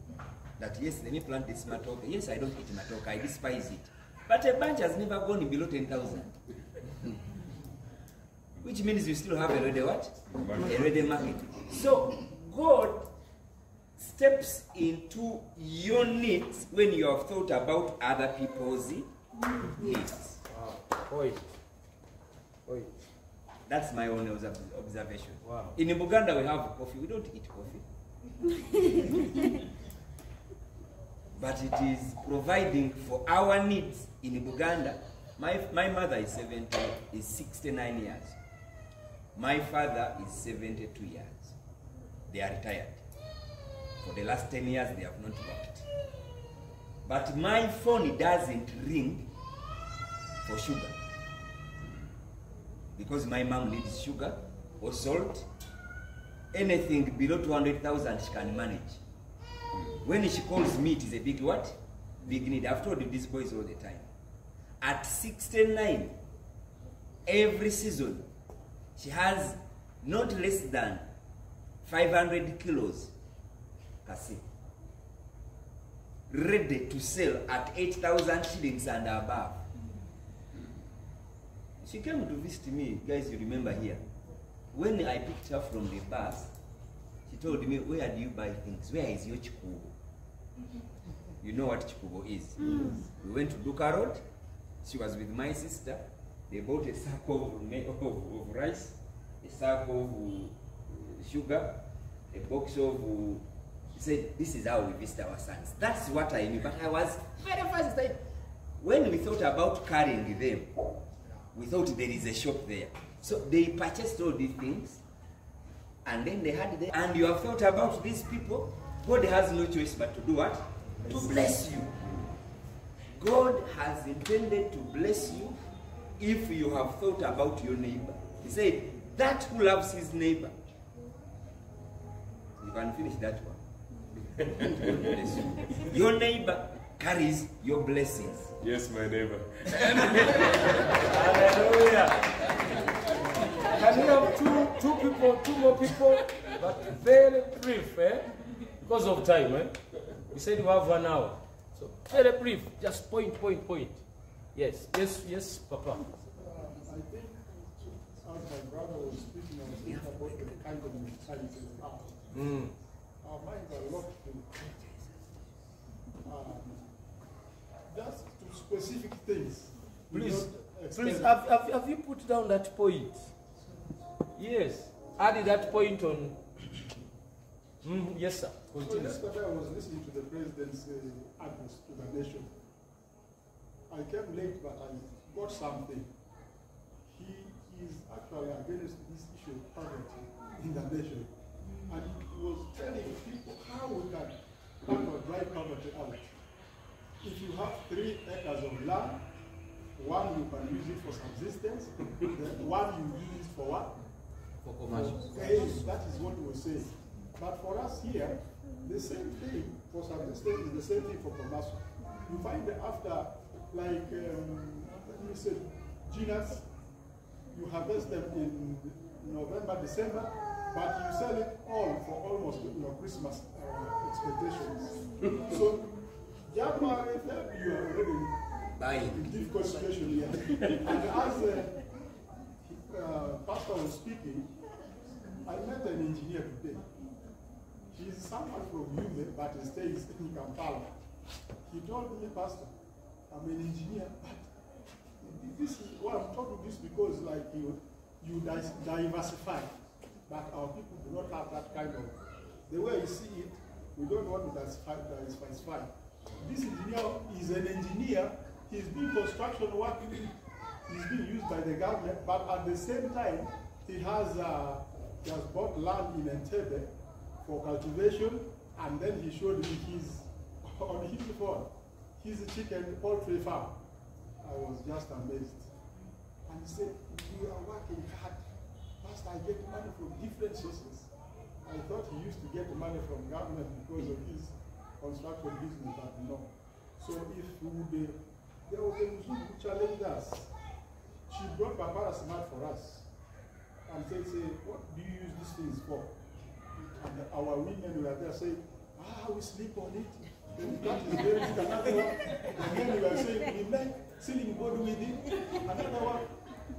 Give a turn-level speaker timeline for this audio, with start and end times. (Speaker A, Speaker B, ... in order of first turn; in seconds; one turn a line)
Speaker A: 0.6-6.3
Speaker A: 8.6-13.1
Speaker B: 10.3-11.0
Speaker A: 14.0-19.1
Speaker A: 19.6-20.4
Speaker C: 20.5-21.4
Speaker C: 22.6-22.9
Speaker A: 23.7-27.8
Speaker C: 25.4-25.7
Speaker A: 31.3-38.4
Speaker A: 39.3-41.5
Speaker A: 42.3-43.0
Speaker A: 44.0-45.9
Speaker A: 47.0-49.3
Speaker A: 50.4-51.0
Speaker A: 53.0-55.5
Speaker A: 56.5-59.0
Speaker A: 60.0-64.1
Speaker A: 64.8-66.2
Speaker A: 67.2-68.3
Speaker A: 69.0-71.1
Speaker A: 71.8-73.1
Speaker A: 74.0-74.4
Speaker A: 76.3-79.6
Speaker A: 81.8-84.0
Speaker A: 84.7-86.5
Speaker A: 87.3-89.9
Speaker A: 91.4-94.2
Speaker A: 94.8-108.2
Speaker A: 108.8-110.7
Speaker A: 111.5-115.0
Speaker A: 116.0-121.9
Speaker A: 123.1-125.6
Speaker A: 126.2-130.5
Speaker A: 132.6-133.6
Speaker B: 134.3-135.3
Speaker A: 134.6-138.5
Speaker B: 138.6-140.6
Speaker C: 140.2-142.4
Speaker C: 143.6-148.3
Speaker C: 148.8-149.8
Speaker C: 150.3-154.0
Speaker C: 154.5-156.1
Speaker D: 156.4-162.5
Speaker C: 162.3-162.7
Speaker D: 163.2-164.5
Speaker A: 164.7-165.1
Speaker D: 166.2-167.0
Speaker D: 167.9-171.3
Speaker C: 170.1-173.3
Speaker C: 174.3-176.4
Speaker C: 177.8-179.2
Speaker D: 178.8-182.6
Speaker D: 183.9-186.1
Speaker D: 187.1-191.3
Speaker D: 191.8-196.3
Speaker D: 197.2-199.2
Speaker D: 199.9-203.9
Speaker A: 204.7-205.7
Speaker D: 204.9-216.7
Speaker D: 217.5-225.9
Speaker D: 226.4-228.4
Speaker A: 228.8-229.3
Speaker D: 228.9-231.8
Speaker A: 230.6-231.0
Speaker D: 232.7-234.5
Speaker D: 235.4-236.8
Speaker D: 237.9-240.9
Speaker D: 241.7-242.7
Speaker D: 243.3-244.5
Speaker D: 245.2-249.7
Speaker D: 250.3-260.3
Speaker D: 260.9-266.9
Speaker D: 267.4-273.8
Speaker D: 274.4-275.7
Speaker D: 276.5-278.4
Speaker D: 279.0-281.1
Speaker D: 281.6-290.5
Speaker D: 291.3-293.1
Speaker D: 293.9-296.1
Speaker D: 296.8-306.3